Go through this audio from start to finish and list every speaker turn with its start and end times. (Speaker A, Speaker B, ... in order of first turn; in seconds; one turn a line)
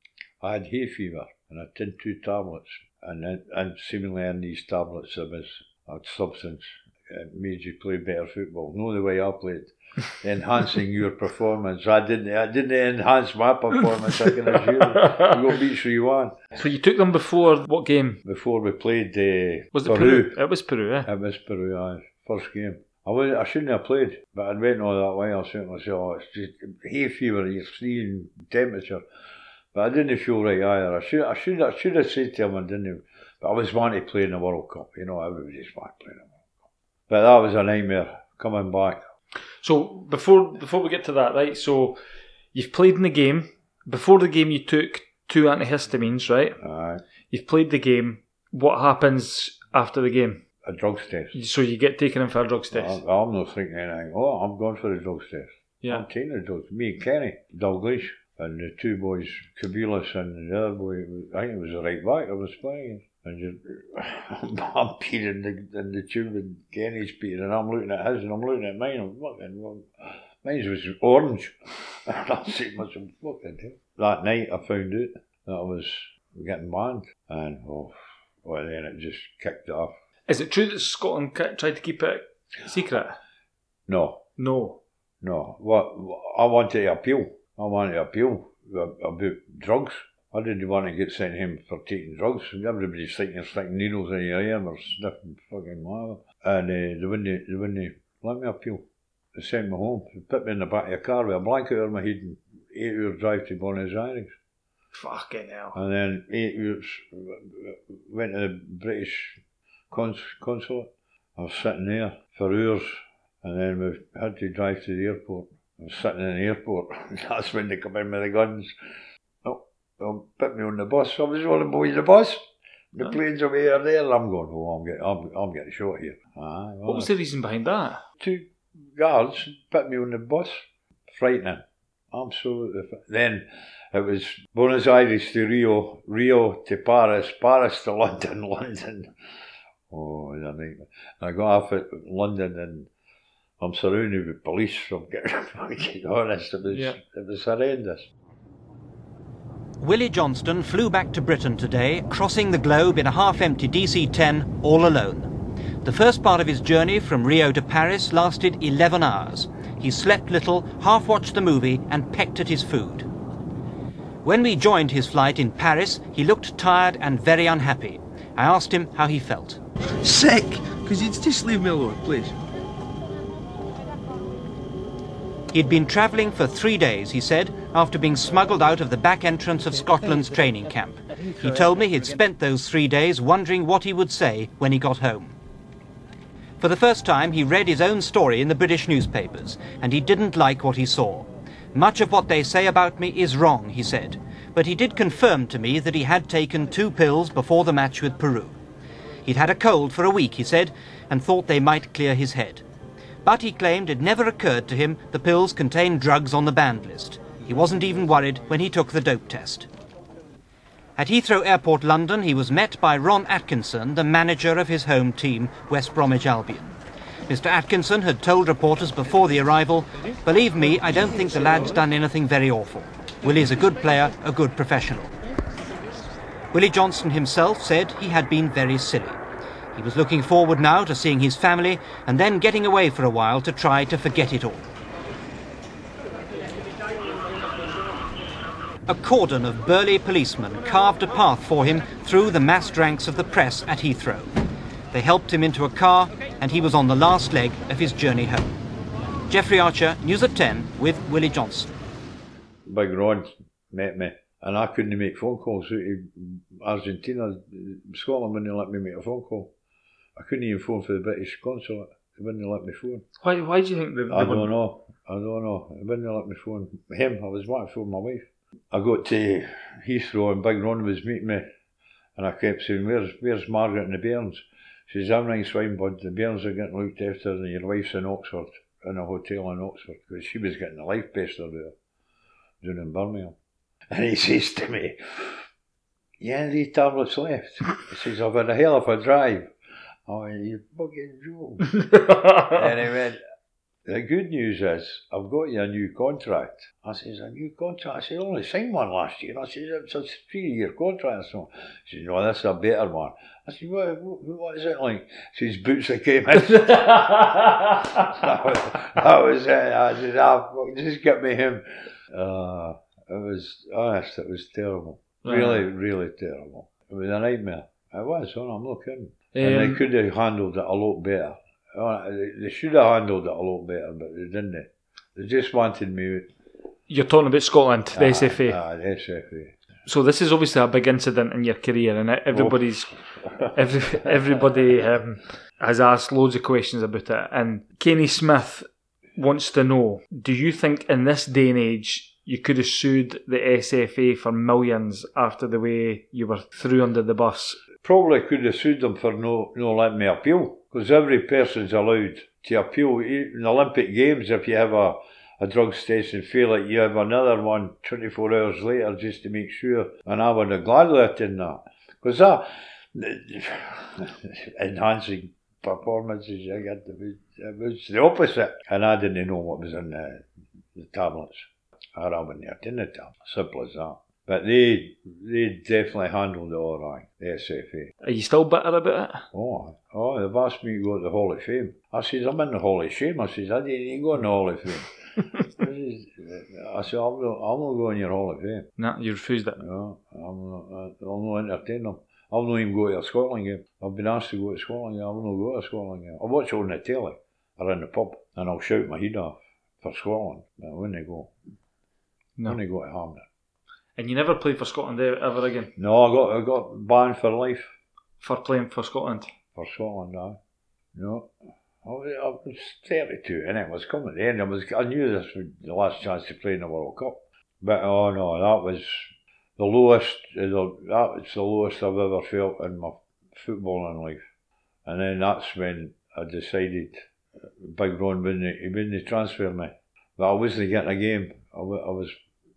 Speaker A: 0.4-16.5
Speaker B: 15.0-15.3
Speaker B: 16.5-18.2
Speaker A: 18.2-20.4
Speaker B: 19.7-21.1
Speaker A: 21.0-29.0
Speaker A: 29.7-36.4
Speaker A: 37.1-39.0
Speaker B: 39.6-42.0
Speaker B: 42.5-46.6
Speaker A: 46.6-47.0
Speaker B: 47.3-50.4
Speaker A: 50.6-51.4
Speaker B: 51.3-53.0
Speaker A: 52.7-80.0
Speaker B: 80.3-83.2
Speaker A: 83.9-84.2
Speaker B: 84.4-84.8
Speaker A: 85.2-104.3
Speaker B: 104.9-105.8
Speaker A: 105.7-109.4
Speaker A: 109.9-118.8
Speaker A: 119.4-127.1
Speaker B: 126.8-128.0
Speaker A: 128.2-139.1
Speaker A: 139.9-142.9
Speaker A: 143.6-148.1
Speaker B: 146.7-147.0
Speaker C: 149.8-163.1
Speaker C: 164.2-169.6
Speaker D: 170.0-172.3
Speaker C: 175.5-185.3
Speaker C: 186.6-198.6
Speaker C: 199.2-202.6
Speaker C: 203.2-209.7
Speaker C: 210.9-216.7
Speaker C: 217.3-225.1
Speaker C: 226.5-229.2
Speaker C: 229.7-234.6
Speaker C: 238.9-244.4
Speaker C: 244.9-248.5
Speaker C: 249.3-251.7
Speaker A: 252.7-259.5
Speaker A: 260.1-263.0
Speaker B: 263.2-264.5
Speaker A: 264.1-271.5
Speaker A: 272.1-281.7
Speaker A: 282.6-283.4
Speaker A: 283.9-285.4
Speaker A: 286.2-289.5
Speaker A: 290.1-291.7
Speaker B: 291.8-292.6
Speaker A: 292.5-293.2
Speaker A: 293.8-326.3
Speaker B: 306.5-308.0
Speaker B: 315.2-315.7
Speaker B: 319.3-319.8
Speaker B: 326.9-328.6
Speaker A: 327.9-329.5
Speaker B: 329.9-332.9
Speaker A: 332.3-334.4
Speaker B: 333.5-347.6
Speaker A: 347.8-377.9
Speaker B: 378.0-379.2
Speaker A: 379.3-388.7
Speaker B: 388.8-389.6
Speaker A: 389.6-401.3
Speaker A: 402.4-403.3
Speaker B: 404.0-405.7
Speaker A: 405.8-407.7
Speaker B: 408.2-409.3
Speaker A: 409.5-410.4
Speaker A: 410.9-411.3
Speaker A: 411.8-424.2
Speaker A: 424.8-432.2